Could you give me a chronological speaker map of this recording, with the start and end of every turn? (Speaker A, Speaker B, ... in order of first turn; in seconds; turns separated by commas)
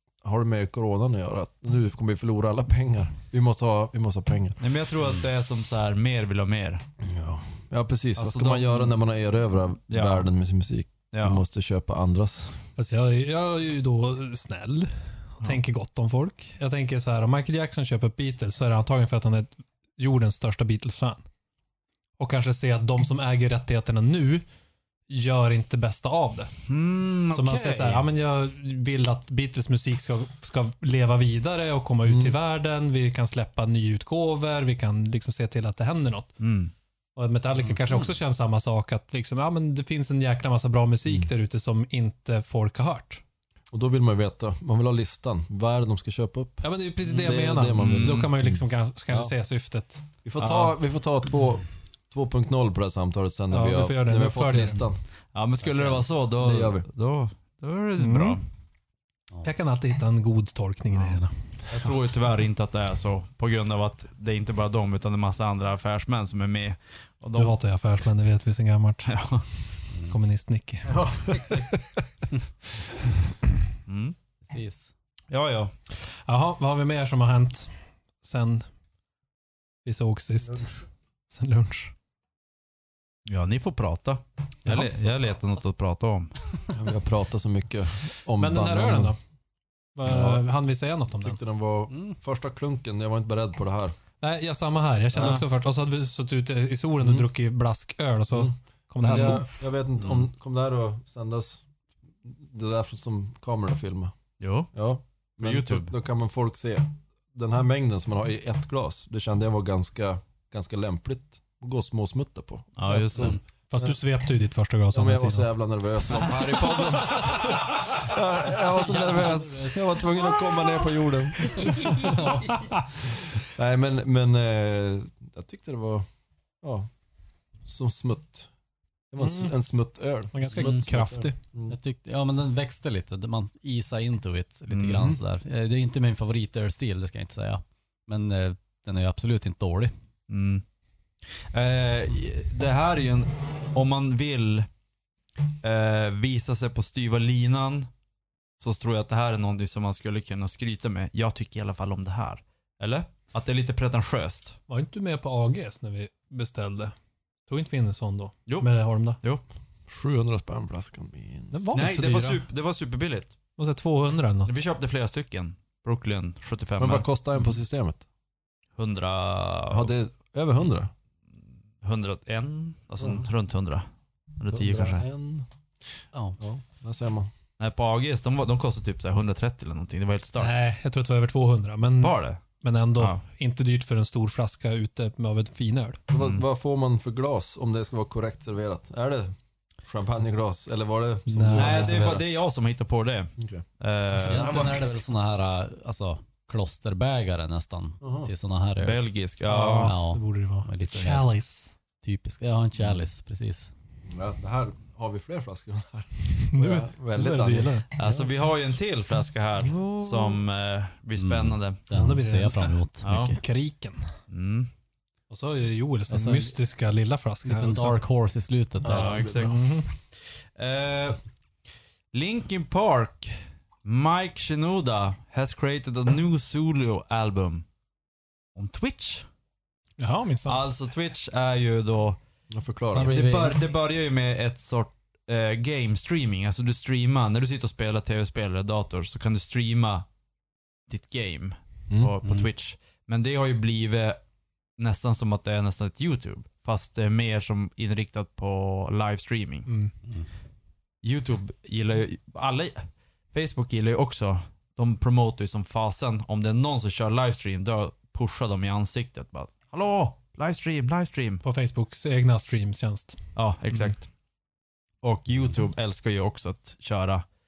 Speaker A: 0.2-4.6, Speaker B: 4.6-6.8, Speaker A: 7.0-12.6, Speaker B: 8.2-8.9, Speaker B: 9.9-10.3, Speaker B: 11.1-11.4, Speaker C: 12.8-21.2, Speaker C: 22.2-24.4, Speaker C: 25.1-26.5, Speaker B: 26.7-28.1, Speaker C: 27.3-36.3, Speaker A: 32.0-32.4, Speaker B: 36.4-36.7, Speaker C: 37.1-43.2, Speaker A: 43.7-49.3, Speaker C: 46.6-50.0, Speaker B: 47.8-48.3, Speaker A: 50.2-55.0, Speaker B: 50.4-50.7, Speaker C: 53.5-54.8, Speaker B: 55.3-58.4, Speaker D: 55.6-56.0, Speaker A: 56.4-56.9, Speaker C: 58.0-58.4, Speaker C: 59.4-61.3, Speaker B: 61.7-67.5, Speaker C: 67.3-69.1, Speaker B: 69.0-69.4, Speaker C: 70.1-71.5, Speaker B: 70.9-71.7, Speaker B: 73.9-74.2, Speaker D: 74.4-74.9, Speaker B: 75.3-75.7, Speaker C: 76.0-78.7, Speaker C: 79.8-80.7, Speaker C: 81.3-81.9, Speaker B: 83.2-86.3, Speaker C: 84.7-84.9, Speaker A: 86.7-89.2, Speaker C: 88.4-89.2, Speaker C: 89.9-91.4, Speaker A: 90.0-90.4, Speaker A: 91.1-94.0, Speaker D: 91.9-92.2, Speaker C: 94.2-99.5, Speaker A: 95.1-95.4, Speaker B: 95.2-95.4, Speaker A: 98.3-101.6, Speaker A: 102.2-104.1, Speaker B: 104.4-104.7, Speaker A: 104.7-113.9, Speaker B: 105.4-105.9, Speaker B: 112.8-113.4, Speaker C: 113.7-115.5, Speaker A: 114.9-122.5, Speaker B: 116.7-116.9, Speaker D: 118.7-120.4, Speaker D: 121.6-122.7, Speaker A: 123.0-126.0, Speaker A: 126.6-126.9, Speaker A: 127.6-128.5, Speaker A: 129.1-131.8, Speaker C: 129.2-129.5, Speaker C: 130.3-131.4, Speaker D: 130.5-130.8, Speaker D: 131.7-139.9, Speaker B: 134.7-135.1, Speaker B: 140.3-140.6, Speaker B: 141.4-144.7, Speaker B: 145.6-147.9, Speaker B: 148.6-154.6, Speaker C: 154.7-156.9, Speaker C: 157.5-159.2, Speaker A: 159.9-161.9, Speaker C: 161.5-162.4, Speaker B: 161.7-163.3, Speaker C: 163.6-164.6, Speaker B: 164.4-167.1, Speaker A: 166.8-168.0, Speaker B: 168.8-169.9, Speaker A: 169.7-170.9, Speaker B: 171.8-173.9, Speaker A: 173.0-173.2, Speaker B: 174.4-175.0, Speaker A: 174.5-175.5, Speaker D: 176.1-176.4, Speaker A: 176.4-177.3, Speaker B: 177.6-180.5, Speaker C: 180.4-186.0, Speaker B: 182.0-182.4, Speaker A: 186.1-192.2, Speaker B: 186.2-186.4, Speaker C: 191.3-192.0, Speaker B: 191.5-194.8, Speaker A: 193.4-193.6, Speaker D: 194.2-199.0, Speaker A: 194.2-194.9, Speaker A: 198.0-198.3, Speaker B: 198.8-199.9, Speaker C: 199.5-201.7, Speaker D: 199.7-201.3, Speaker D: 202.0-203.7, Speaker A: 204.1-208.3, Speaker C: 206.4-207.8, Speaker B: 207.9-211.8, Speaker A: 209.6-210.4, Speaker D: 211.2-213.4, Speaker C: 211.9-214.1, Speaker B: 213.0-213.4, Speaker B: 214.3-214.7, Speaker C: 215.3-218.0, Speaker D: 216.1-216.5, Speaker D: 217.4-219.2, Speaker A: 218.8-219.6, Speaker B: 218.8-219.8, Speaker C: 219.3-219.9, Speaker B: 220.6-221.2, Speaker B: 222.1-227.6, Speaker B: 228.5-229.2, Speaker C: 230.0-230.6, Speaker B: 230.4-232.2, Speaker A: 232.5-233.1, Speaker D: 232.9-233.6, Speaker B: 233.0-240.0, Speaker B: 240.9-244.2, Speaker D: 242.2-242.5, Speaker B: 244.8-249.7, Speaker C: 249.7-249.9, Speaker B: 251.0-261.4, Speaker C: 261.4-263.9, Speaker B: 263.4-264.1, Speaker B: 265.0-267.2